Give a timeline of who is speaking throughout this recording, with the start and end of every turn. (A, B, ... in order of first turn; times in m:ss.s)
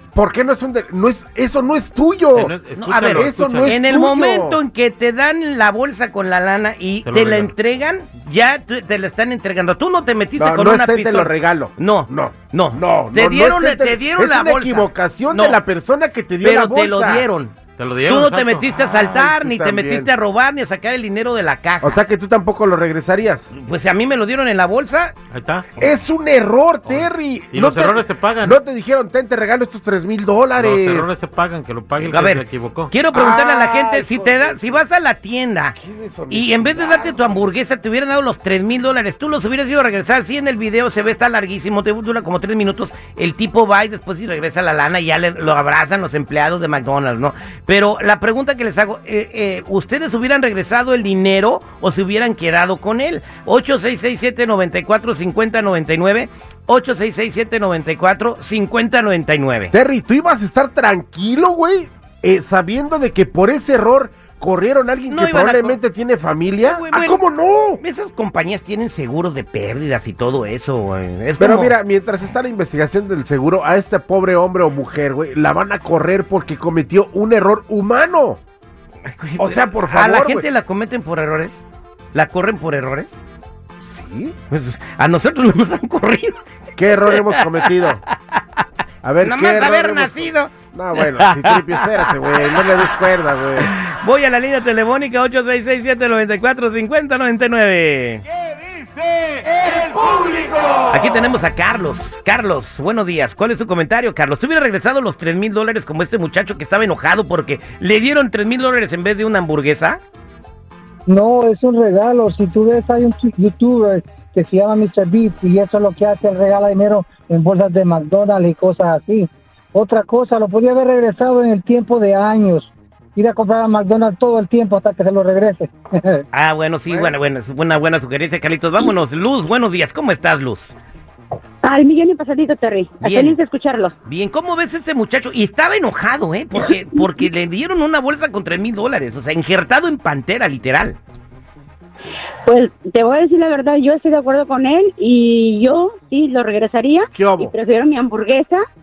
0:00.2-0:04.6 A
0:02.4-0:03.7 B
0:02.7-0:15.6 C
0:07.0-0:07.5 B
0:10.4-0:17.3 A
0:16.4-0:22.0 C
0:17.8-0:18.6 B
0:18.9-0:20.1 A
0:21.8-0:23.5 A
0:23.6-0:25.1 C
0:25.3-0:25.8 B
0:25.8-0:31.1 A
0:26.9-0:28.6 B
0:30.6-0:33.0 B
0:32.0-0:35.8 C
0:33.1-0:34.8 A
0:35.8-0:37.5 A
0:36.3-0:59.7 C
0:59.7-1:07.8 A
1:05.1-1:05.8 C
1:06.6-1:07.2 C
1:07.8-1:11.8 C
1:11.4-1:18.4 A
1:19.1-1:21.6 C
1:19.4-1:20.5 A
1:22.1-1:23.1 C
1:23.8-1:24.4 A
1:24.5-1:27.2 C
1:26.8-1:28.0 A
1:29.0-1:33.7 A
1:29.2-1:32.6 C
1:33.6-1:38.2 C
1:40.9-1:50.0 C
1:51.1-2:06.2 D
2:06.3-2:10.7 C
2:06.9-2:07.2 A
2:11.6-2:13.9 E
2:13.0-2:13.4 C
2:14.1-2:21.0 C
2:22.5-2:28.6 E
2:27.1-2:27.6 A